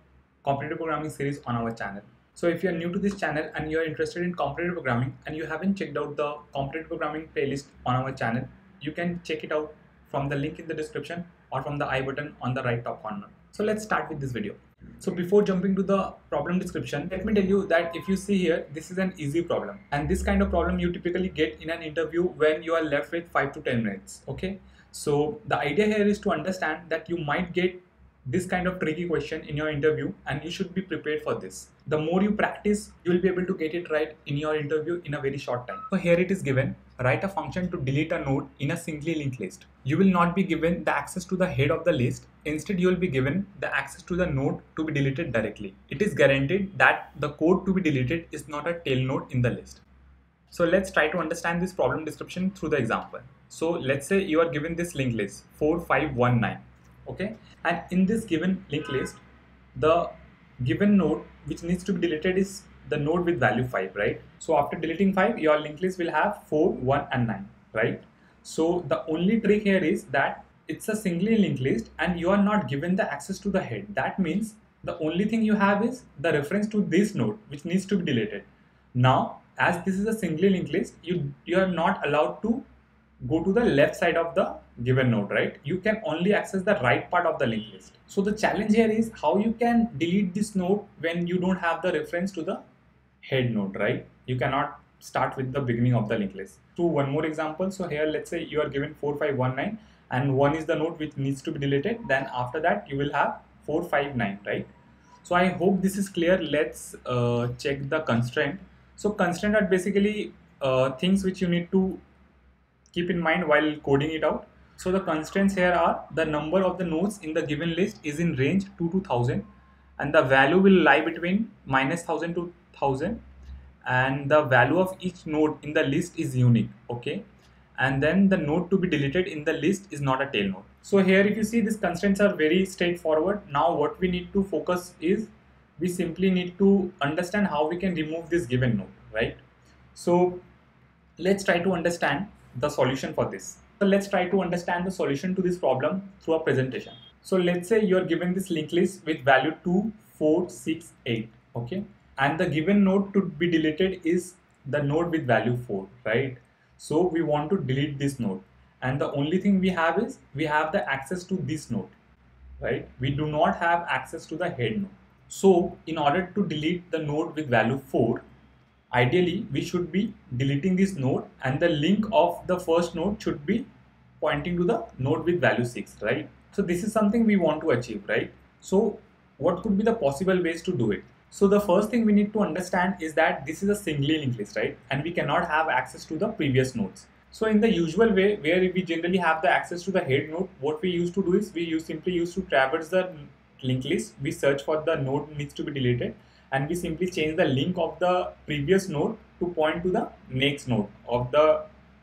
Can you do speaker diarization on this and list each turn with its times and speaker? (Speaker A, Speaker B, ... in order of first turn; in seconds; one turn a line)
Speaker A: 0.4-49.8
Speaker A: 50.5-59.2
Speaker A: 59.7-82.6
Speaker A: 83.2-92.6
Speaker A: 93.2-104.7
Speaker A: 105.2-112.0
Speaker A: 112.9-119.4
Speaker A: 120.0-123.2
Speaker A: 123.8-127.2
Speaker A: 127.8-139.4
Speaker A: 139.9-140.4
Speaker A: 141.2-161.9
Speaker A: 162.6-168.2
Speaker A: 168.9-173.7
Speaker A: 174.2-201.6